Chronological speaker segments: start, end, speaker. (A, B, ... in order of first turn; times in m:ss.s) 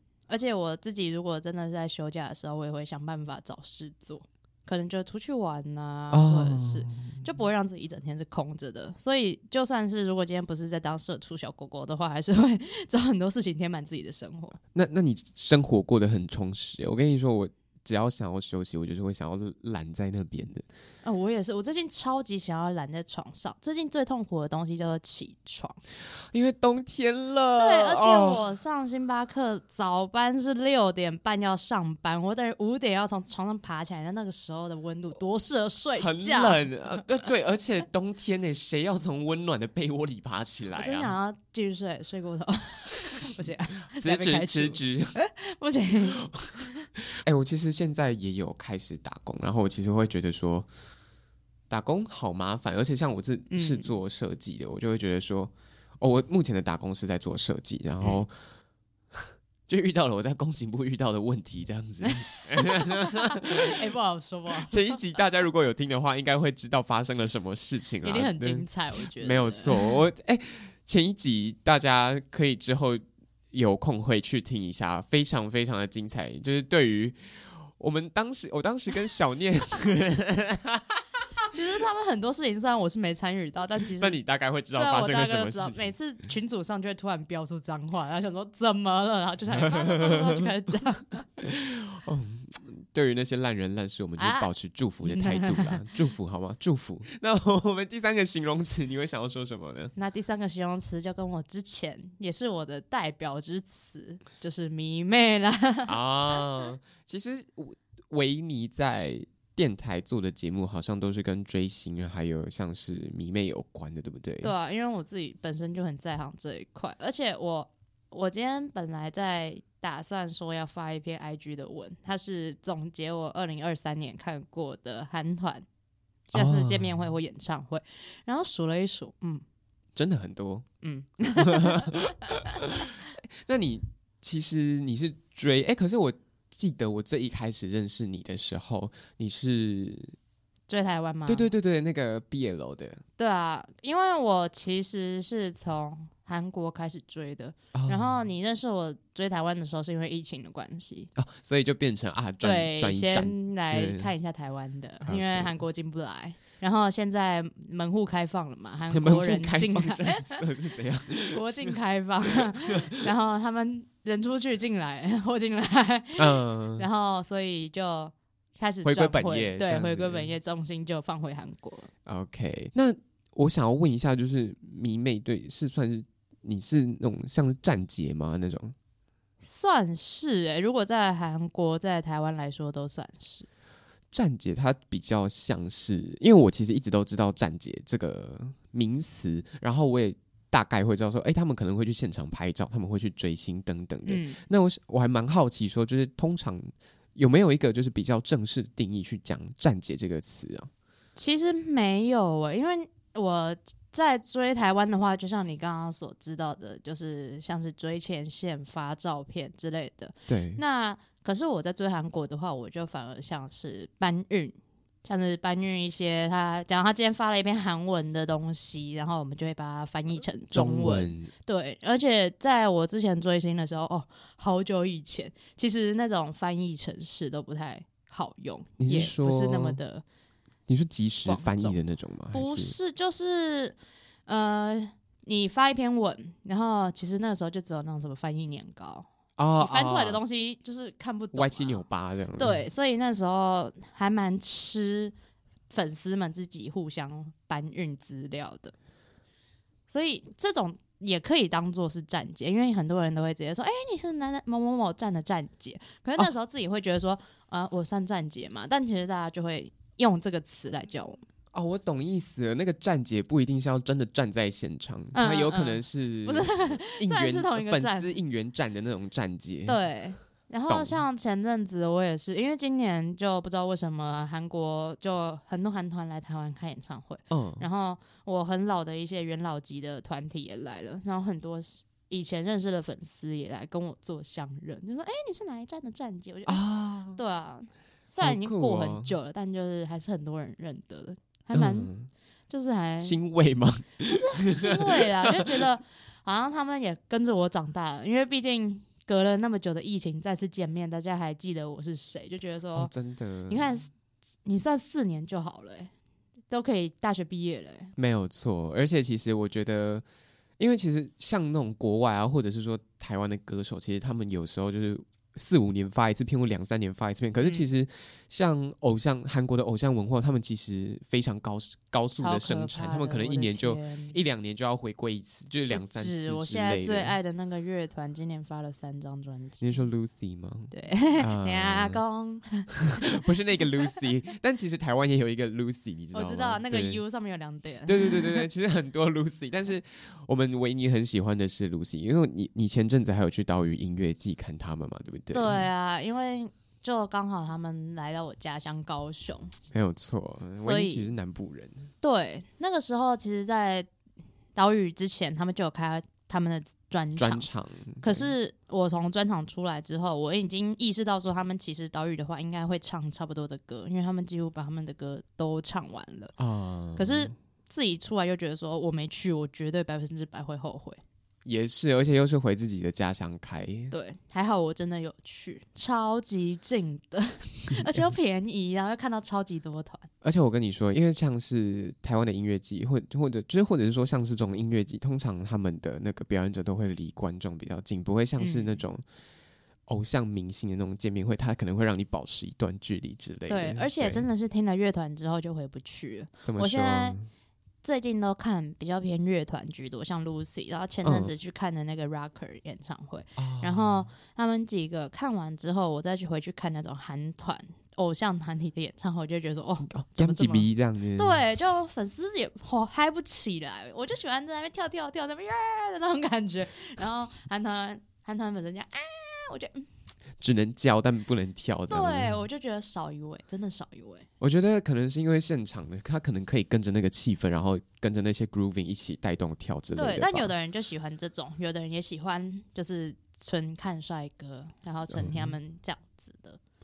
0:00.3-0:14.6 A
0:06.1-0:07.2 B
0:14.7-0:20.7 B
0:21.0-0:25.8 A
0:26.3-0:28.4 B
0:27.6-0:37.2 A
0:36.0-0:41.2 B
0:40.7-0:46.7 A
0:44.0-0:45.2 B
0:46.3-0:50.7 B
0:51.7-0:58.3 B
0:53.5-0:53.9 A
0:59.1-1:03.8 B
1:02.1-1:05.0 A
1:04.7-1:13.0 B
1:08.0-1:10.0 A
1:13.5-1:21.2 B
1:21.5-1:24.2 A
1:24.0-1:25.9 B
1:24.7-1:31.2 A
1:29.5-1:30.5 B
1:31.4-1:39.9 B
1:34.2-1:34.5 A
1:35.1-1:35.8 A
1:40.0-1:46.0 A
1:45.9-1:54.5 B
1:54.4-2:05.7 A
2:06.3-2:09.4 A
2:06.3-2:07.1 B
2:10.0-2:10.7 B
2:10.8-2:11.9 A
2:11.4-2:20.2 B
2:20.7-2:21.5 A
2:21.3-2:23.0 B
2:23.2-2:31.1 A
2:27.7-2:28.2 B
2:31.2-2:34.1 B
2:32.4-2:40.4 A
2:35.0-2:35.6 B
2:38.9-2:41.8 B
2:41.3-2:51.9 A
2:46.2-2:46.9 B
2:48.8-2:50.3 B
2:52.1-2:58.8 B
2:59.4-3:03.5 A
3:04.1-3:20.7 B
3:14.1-3:14.4 A
3:21.2-3:50.0 A
3:30.3-3:30.6 B
3:40.5-3:41.3 B
3:48.8-3:49.8 B
3:50.7-3:52.8 B
3:51.2-3:51.8 A
3:52.3-3:53.8 A
3:54.3-4:01.8 A
3:59.4-4:00.2 B
4:01.3-4:02.6 B
4:02.4-4:05.1 A
4:05.7-4:08.7 A
4:09.9-4:21.2 A
4:21.5-4:29.8 B
4:25.1-4:28.1 A
4:29.6-4:46.6 A
4:30.7-4:31.0 B
4:37.3-4:37.6 B
4:46.5-4:47.2 B
4:47.1-4:51.9 A
4:48.2-4:49.1 B
4:51.5-4:52.1 B
4:52.5-4:53.2 A
4:53.0-4:55.5 B
4:54.1-5:02.9 A
5:02.8-5:03.7 B
5:03.5-5:03.9 A
5:04.4-5:05.9 A
5:06.5-5:07.9 A
5:08.0-5:10.0 B
5:10.6-5:27.1 B
5:22.1-5:24.2 A
5:25.7-5:29.8 A
5:29.6-5:32.0 B
5:30.7-5:33.2 A
5:32.9-5:37.0 B
5:36.1-5:38.4 A
5:37.9-5:45.6 B
5:45.3-5:49.5 A
5:49.7-5:51.9 B
5:50.6-5:51.1 A
5:52.0-5:53.9 A
5:54.6-5:57.5 A
5:57.2-5:58.3 B
5:58.0-6:06.3 A
6:06.4-6:07.3 B
6:07.0-6:11.0 A
6:11.4-6:13.9 B
6:13.9-6:20.1 A
6:17.8-6:18.0 B
6:20.2-6:29.0 B
6:28.4-6:28.8 A
6:29.9-6:34.2 B
6:33.5-6:37.2 A
6:36.4-6:37.3 B
6:37.8-6:59.9 A
6:41.0-6:41.3 B
6:43.4-6:44.1 B
6:49.9-6:51.4 B
7:00.4-7:02.4 B
7:01.9-7:04.2 A
7:04.4-7:10.5 B
7:10.0-7:16.6 A
7:15.1-7:15.6 B